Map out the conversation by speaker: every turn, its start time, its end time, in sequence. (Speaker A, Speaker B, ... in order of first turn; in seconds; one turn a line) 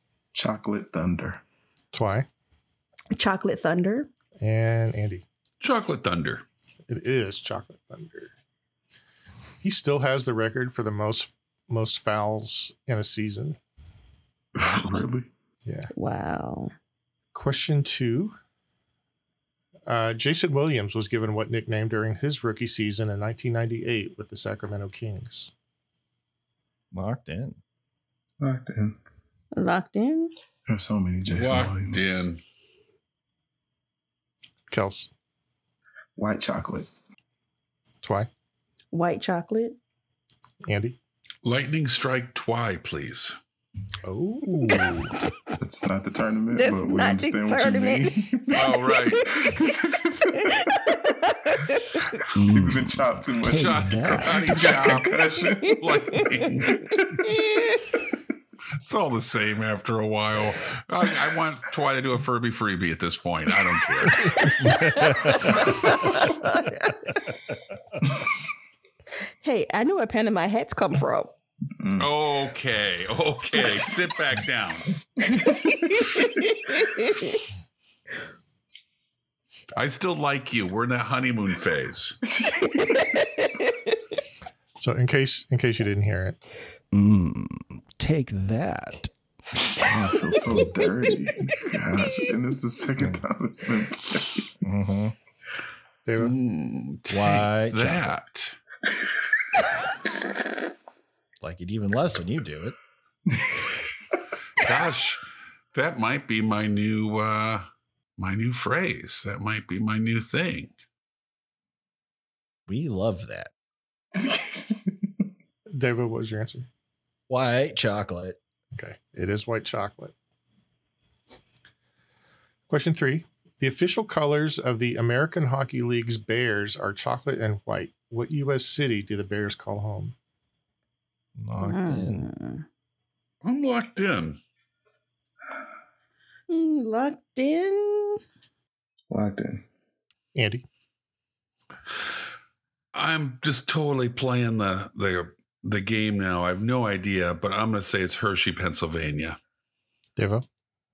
Speaker A: 0.3-1.4
Speaker B: 1.9-2.3
Speaker C: 3.1-4.1
Speaker B: 4.4-5.2
Speaker D: 5.6-6.4
Speaker B: 6.9-8.3
Speaker B: 9.6-13.6
Speaker A: 14.6-15.3
Speaker C: 15.9-16.7
Speaker B: 17.3-18.4
Speaker B: 19.9-25.5
Speaker E: 26.9-27.6
Speaker A: 28.4-29.0
Speaker C: 29.5-30.3
Speaker A: 30.7-32.3
Speaker D: 31.3-32.4
Speaker B: 34.7-35.1
Speaker A: 36.2-36.9
Speaker B: 38.0-38.3
Speaker C: 38.9-39.8
Speaker B: 40.6-41.0
Speaker D: 41.4-43.4
Speaker B: 44.0-45.1
Speaker A: 45.6-50.7
Speaker C: 46.5-49.5
Speaker D: 48.5-49.2
Speaker C: 50.5-52.0
Speaker A: 52.4-56.2
Speaker D: 52.4-52.9
Speaker E: 53.4-54.3
Speaker D: 53.5-55.2
Speaker C: 55.4-56.5
Speaker D: 55.8-56.7
Speaker D: 58.8-64.5
Speaker C: 64.3-66.9
Speaker E: 64.7-65.5
Speaker C: 69.4-71.3
Speaker A: 71.8-72.1
Speaker D: 72.0-74.9
Speaker A: 73.5-74.2
Speaker A: 75.2-76.0
Speaker C: 76.8-77.4
Speaker D: 79.7-82.2
Speaker A: 82.3-82.6
Speaker C: 82.8-83.2
Speaker B: 84.8-86.4
Speaker E: 86.9-89.1
Speaker A: 89.8-94.5
Speaker C: 90.5-91.1
Speaker E: 93.0-93.2
Speaker E: 94.6-95.1
Speaker B: 96.0-96.3
Speaker D: 96.2-98.6
Speaker E: 97.1-98.1
Speaker E: 101.4-102.8
Speaker A: 103.4-103.7
Speaker D: 104.6-105.2
Speaker D: 105.7-107.7
Speaker D: 108.2-110.7
Speaker E: 112.7-113.5
Speaker A: 114.1-115.3
Speaker B: 115.7-116.7
Speaker E: 117.3-118.4
Speaker B: 118.7-120.1
Speaker B: 122.7-130.1
Speaker E: 131.4-132.2
Speaker C: 131.6-132.6
Speaker D: 133.4-134.4
Speaker C: 136.5-138.2
Speaker A: 139.1-139.7
Speaker B: 140.3-140.6
Speaker D: 142.9-149.4
Speaker B: 150.2-150.4